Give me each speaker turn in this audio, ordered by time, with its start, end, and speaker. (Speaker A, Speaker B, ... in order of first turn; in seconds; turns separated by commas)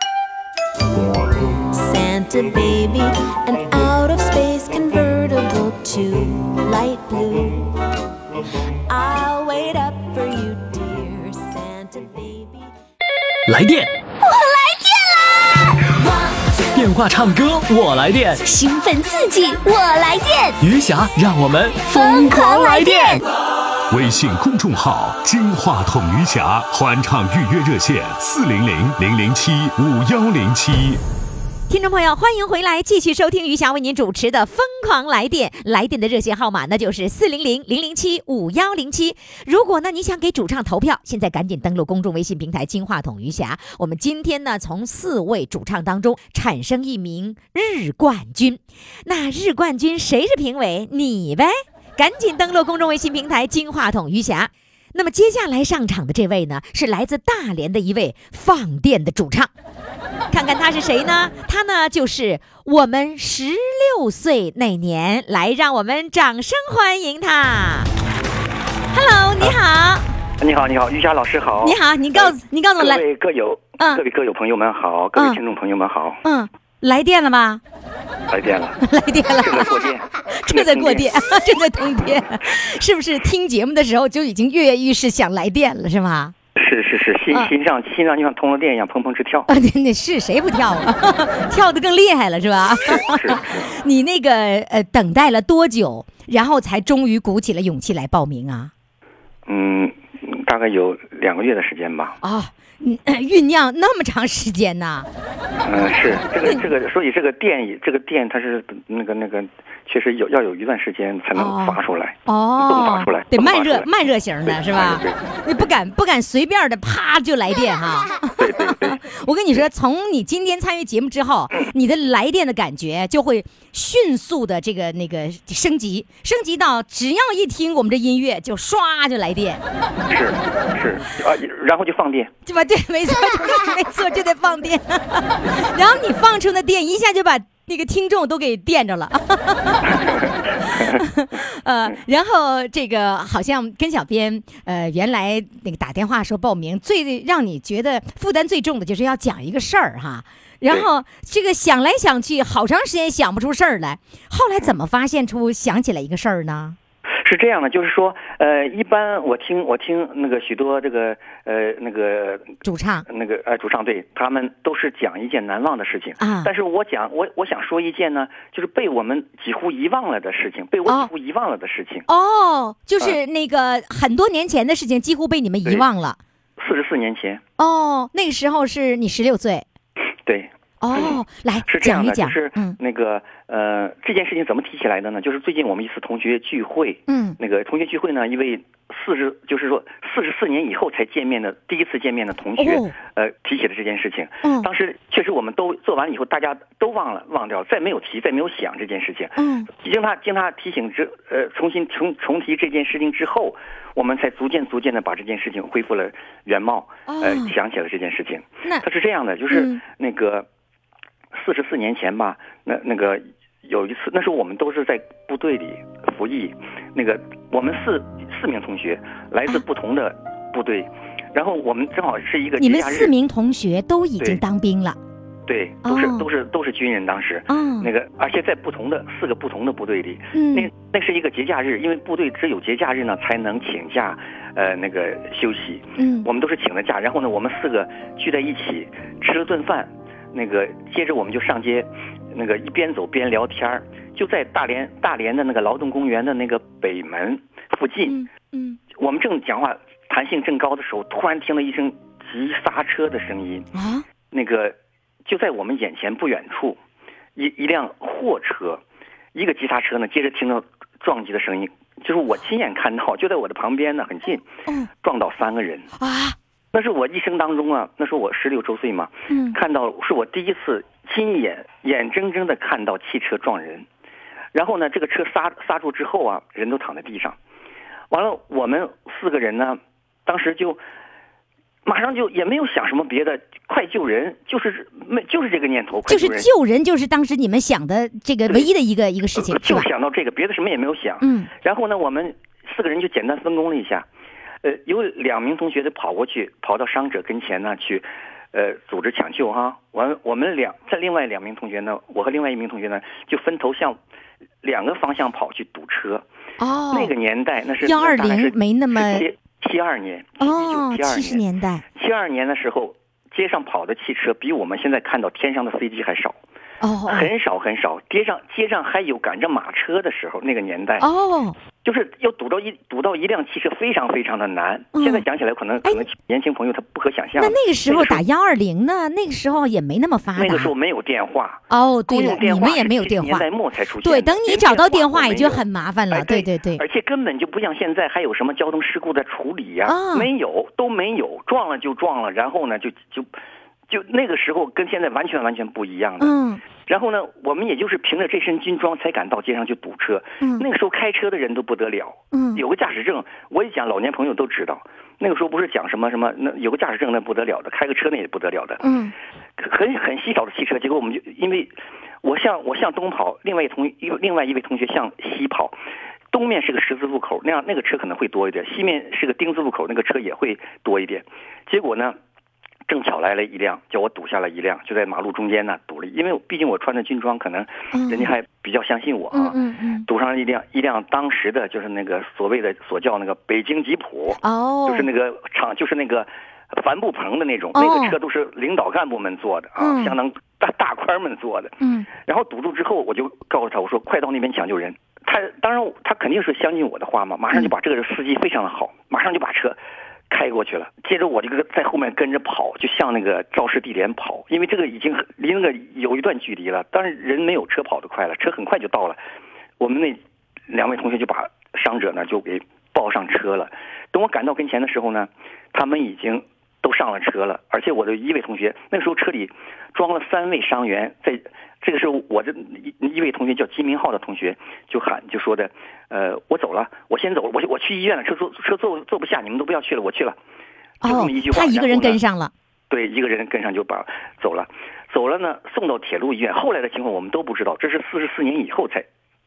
Speaker A: 1.5-7.8, Speaker A: 8.9-12.7, Speaker B: 13.4-13.9, Speaker C: 14.2-15.6, Speaker B: 16.7-18.4, Speaker C: 18.4-20.6, Speaker B: 20.6-23.2, Speaker C: 21.9-23.2, Speaker D: 23.9-31.0, Speaker E: 31.7-59.5, Speaker E: 60.3-67.9, Speaker E: 68.9-70.0, Speaker F: 70.4-76.2, Speaker E: 71.6-73.0, Speaker E: 75.1-75.4, Speaker E: 76.2-77.6, Speaker F: 78.3-78.8, Speaker E: 78.8-79.7, Speaker F: 79.4-81.1, Speaker E: 80.4-86.3, Speaker F: 86.5-89.5, Speaker E: 89.5-98.7, Speaker F: 92.8-93.7, Speaker F: 99.5-102.2, Speaker E: 102.2-105.1, Speaker F: 105.6-113.9, Speaker E: 111.3-129.6, Speaker F: 114.5-115.7, Speaker F: 118.4-119.0, Speaker F: 130.1-132.3, Speaker E: 132.4-140.0, Speaker F: 140.0-141.0, Speaker E: 140.6-156.8, Speaker F: 157.2-172.0, Speaker E: 162.6-163.0, Speaker E: 166.2-166.5, Speaker E: 172.1-176.2, Speaker F: 176.6-177.4, Speaker E: 177.6-179.7, Speaker F: 180.2-210.5, Speaker E: 180.8-182.8, Speaker E: 187.1-187.4, Speaker E: 192.6-192.9, Speaker E: 194.4-194.7, Speaker E: 199.4-199.7, Speaker E: 207.1-207.5, Speaker E: 209.5-209.8, Speaker F: 211.3-223.1, Speaker E: 222.6-225.0, Speaker F: 225.4-248.2, Speaker E: 225.8-226.2, Speaker E: 227.5-227.9, Speaker E: 230.3-230.7, Speaker E: 236.0-236.3, Speaker E: 248.1-248.8, Speaker F: 248.9-253.7, Speaker E: 253.7-254.1, Speaker F: 254.3-256.8, Speaker F: 257.4-258.8, Speaker F: 259.3-264.4, Speaker F: 265.0-265.9, Speaker E: 266.0-266.4, Speaker F: 266.7-273.9, Speaker E: 269.3-269.6, Speaker F: 274.5-277.4, Speaker F: 278.1-280.8, Speaker F: 281.8-286.5, Speaker E: 286.1-289.9, Speaker F: 289.3-294.1, Speaker E: 291.2-291.5, Speaker F: 294.6-304.0, Speaker F: 304.6-306.2, Speaker E: 306.6-307.1, Speaker F: 306.9-316.4, Speaker E: 307.8-309.3, Speaker E: 310.4-311.8, Speaker E: 316.8-317.3, Speaker F: 317.1-321.1, Speaker E: 321.0-321.6, Speaker F: 321.8-328.2, Speaker E: 324.9-325.2, Speaker E: 327.4-330.7, Speaker F: 330.3-343.3, Speaker E: 331.7-333.5, Speaker E: 334.0-336.8, Speaker E: 339.8-340.3, Speaker F: 343.9-358.8, Speaker E: 346.2-346.6, Speaker E: 352.3-352.6, Speaker E: 358.8-359.1, Speaker F: 359.6-365.8, Speaker F: 366.3-372.2, Speaker F: 372.9-399.8, Speaker E: 377.9-378.3, Speaker E: 379.3-380.1, Speaker E: 384.4-385.1, Speaker E: 387.7-388.1, Speaker E: 389.8-390.1, Speaker E: 391.8-392.1, Speaker F: 400.3-409.2, Speaker F: 409.8-430.4, Speaker E: 431.0-432.5, Speaker F: 431.0-432.2, Speaker F: 432.9-439.1